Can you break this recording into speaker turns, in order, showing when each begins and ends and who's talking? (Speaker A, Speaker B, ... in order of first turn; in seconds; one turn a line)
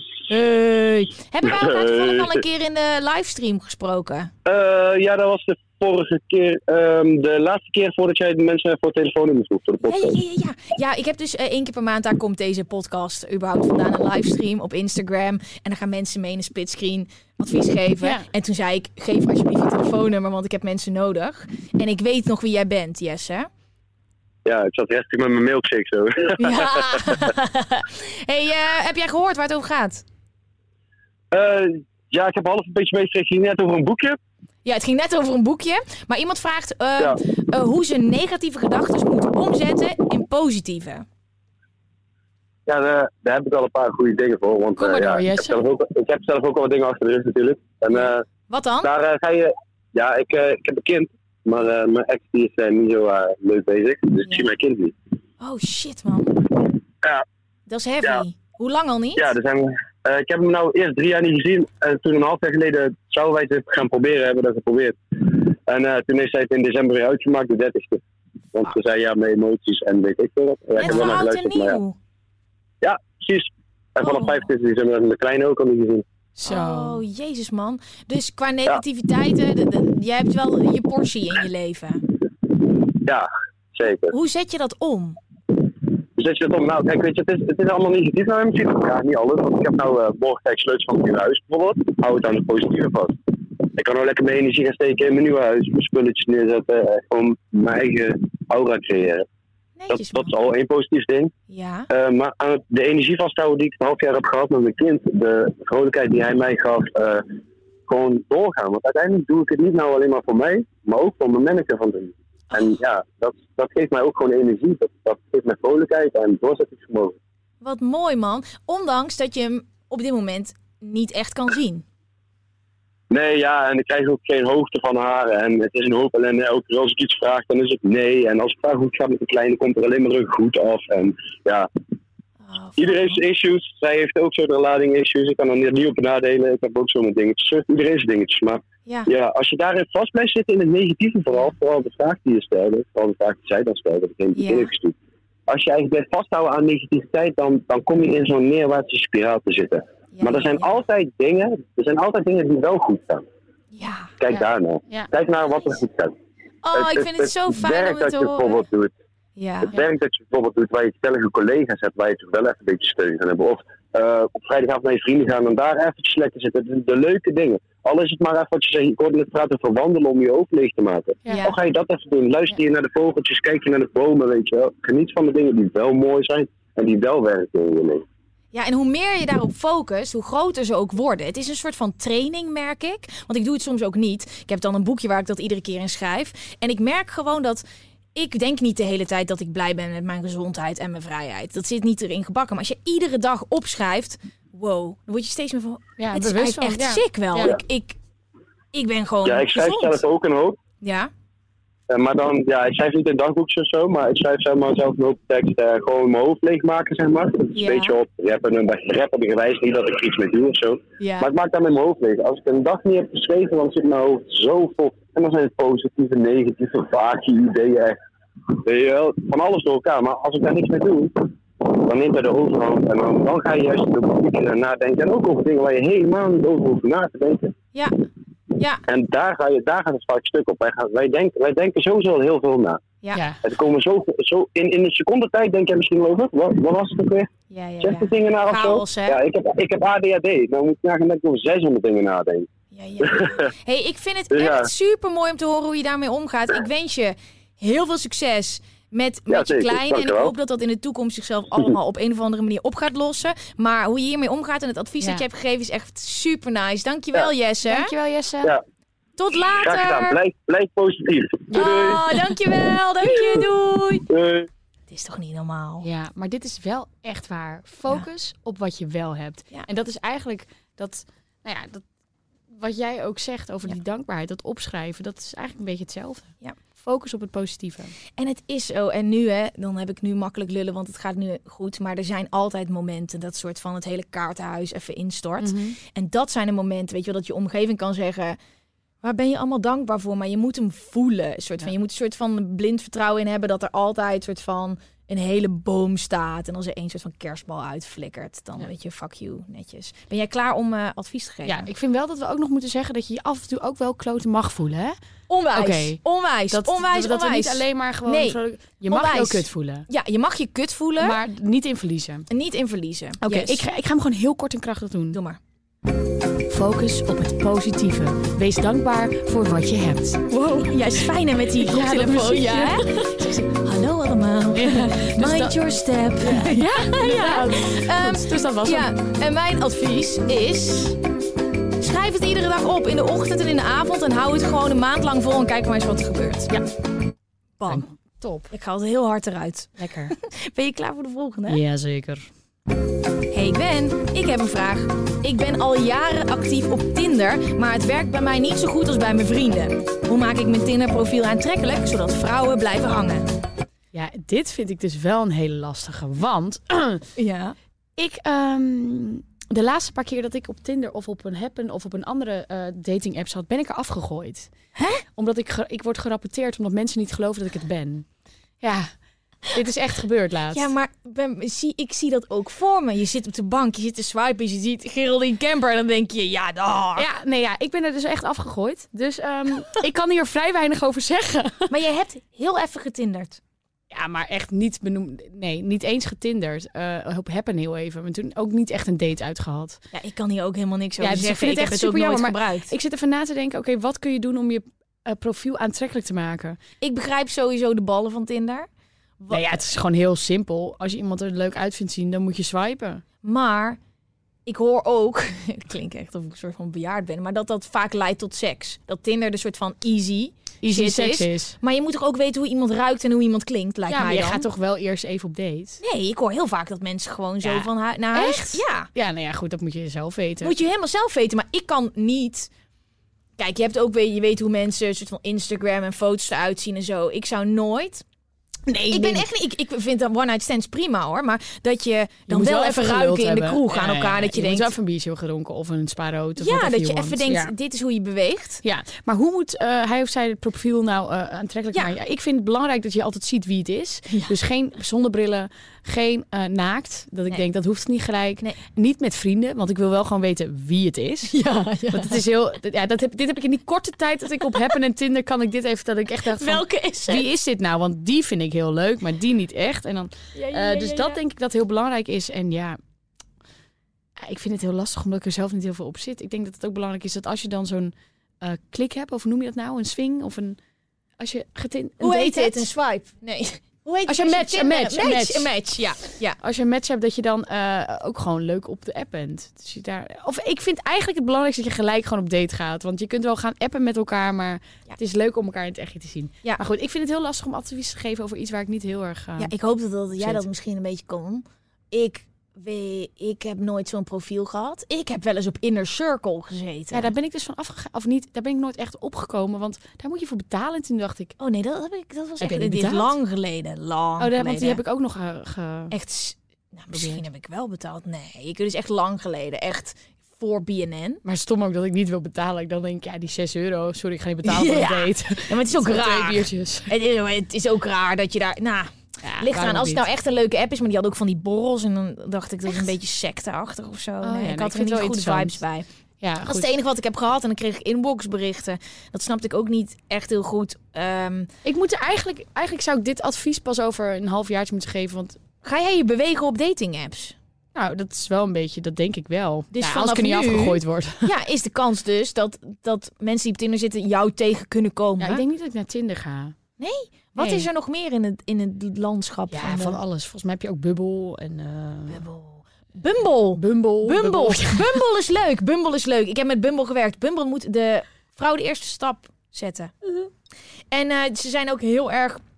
Speaker A: 0.3-4.3
Speaker B: 1.4-2.3
Speaker B: 4.5-10.1
Speaker A: 9.8-23.5
Speaker C: 18.0-18.2
Speaker B: 24.4-27.1
Speaker A: 26.4-30.0
Speaker B: 31.3-34.2
Speaker A: 34.6-41.0
Speaker B: 42.7-48.2
Speaker C: 44.8-45.6
Speaker A: 47.9-48.9
Speaker B: 48.8-54.9
Speaker A: 55.4-56.4
Speaker A: 57.7-59.3
Speaker B: 59.2-68.0
Speaker B: 68.5-71.8
Speaker A: 70.8-72.0
Speaker B: 72.8-76.0
Speaker A: 74.0-74.4
Speaker C: 76.3-77.0
Speaker A: 76.5-82.0
Speaker B: 83.0-84.1
Speaker A: 84.1-85.2
Speaker B: 86.2-99.2
Speaker A: 99.8-100.3
Speaker B: 99.9-101.3
Speaker A: 101.5-101.9
Speaker B: 101.9-107.2
Speaker B: 107.9-117.2
Speaker A: 117.6-121.8
Speaker B: 123.1-131.7
Speaker A: 132.4-133.2
Speaker B: 132.8-144.9
Speaker A: 144.3-144.7
Speaker B: 145.5-153.2
Speaker A: 150.1-150.7
Speaker A: 153.7-154.2
Speaker B: 154.2-156.1
Speaker A: 156.6-158.7
Speaker B: 156.7-158.9
Speaker A: 159.3-159.7
Speaker B: 159.6-178.0
Speaker A: 171.3-171.6
Speaker A: 178.5-187.6
Speaker A: 188.1-198.0
Speaker C: 196.0-197.6
Speaker A: 198.7-200.0
Speaker B: 199.2-200.6
Speaker A: 200.8-201.1
Speaker B: 201.9-218.0
Speaker A: 207.5-207.9
Speaker A: 211.0-211.3
Speaker B: 218.6-227.5
Speaker A: 228.6-228.8
Speaker B: 228.9-232.8
Speaker C: 233.1-233.4
Speaker B: 233.4-237.3
Speaker A: 237.5-239.2
Speaker B: 237.8-242.5
Speaker A: 242.7-257.9
Speaker B: 243.0-243.5
Speaker B: 244.3-244.7
Speaker B: 249.3-250.3
Speaker C: 257.6-258.5
Speaker A: 259.2-260.2
Speaker B: 259.6-262.0
Speaker A: 261.5-264.1
Speaker B: 264.1-264.5
Speaker A: 264.9-265.9
Speaker C: 265.8-271.8
Speaker C: 272.5-278.0
Speaker A: 278.2-288.4
Speaker C: 285.4-285.8
Speaker A: 289.0-301.7
Speaker C: 301.4-304.9
Speaker A: 305.3-311.2
Speaker C: 305.5-306.0
Speaker C: 306.5-309.9
Speaker C: 311.0-312.2
Speaker A: 312.3-313.6
Speaker C: 313.2-315.2
Speaker A: 315.1-315.4
Speaker C: 316.5-321.0
Speaker A: 320.3-331.0
Speaker C: 321.6-323.5
Speaker C: 324.5-325.6
Speaker C: 326.2-328.9
Speaker A: 331.8-336.5
Speaker A: 337.6-337.9
Speaker C: 337.7-338.5
Speaker A: 338.5-341.6
Speaker C: 339.8-340.1
Speaker C: 341.5-342.3
Speaker A: 343.3-353.3
Speaker C: 353.9-357.0
Speaker A: 357.2-357.6
Speaker C: 358.0-364.5
Speaker A: 364.8-365.0
Speaker C: 365.2-368.1
Speaker C: 368.6-368.9
Speaker C: 369.5-370.7
Speaker A: 370.5-377.1
Speaker C: 377.0-381.7
Speaker A: 381.7-383.4
Speaker C: 383.9-389.8
Speaker A: 389.9-392.7
Speaker C: 391.0-396.6
Speaker A: 396.8-398.7
Speaker C: 399.3-403.0
Speaker A: 403.2-403.8
Speaker A: 404.4-414.5
Speaker C: 410.6-411.5
Speaker C: 413.9-415.8
Speaker A: 415.8-418.9
Speaker C: 417.4-420.5
Speaker A: 420.4-422.5
Speaker A: 423.4-428.0
Speaker C: 428.7-429.3
Speaker A: 428.9-434.7
Speaker C: 432.3-437.5
Speaker A: 436.4-438.6
Speaker C: 438.6-451.4
Speaker A: 444.1-444.3
Speaker A: 451.3-452.2
Speaker C: 451.9-462.8
Speaker A: 456.3-457.3
Speaker A: 460.3-461.2
Speaker C: 464.2-470.6
Speaker C: 471.2-472.7
Speaker A: 472.0-476.4
Speaker C: 474.1-475.5
Speaker C: 476.4-489.5
Speaker A: 489.4-497.1
Speaker C: 490.2-490.4
Speaker C: 496.9-501.3
Speaker A: 501.4-504.8
Speaker C: 502.4-503.1
Speaker C: 504.2-505.9
Speaker A: 505.9-511.2
Speaker C: 506.9-507.2
Speaker C: 511.2-516.9
Speaker A: 514.4-525.9
Speaker C: 519.2-520.0
Speaker C: 524.2-525.6
Speaker C: 526.2-526.7
Speaker A: 526.4-531.5
Speaker C: 531.6-535.4
Speaker A: 535.6-537.4
Speaker C: 537.7-541.3
Speaker A: 539.7-545.4
Speaker C: 545.2-546.5
Speaker A: 546.8-550.0
Speaker C: 547.4-547.7
Speaker C: 549.5-552.2
Speaker A: 552.1-559.9
Speaker C: 553.5-555.0
Speaker A: 560.9-562.4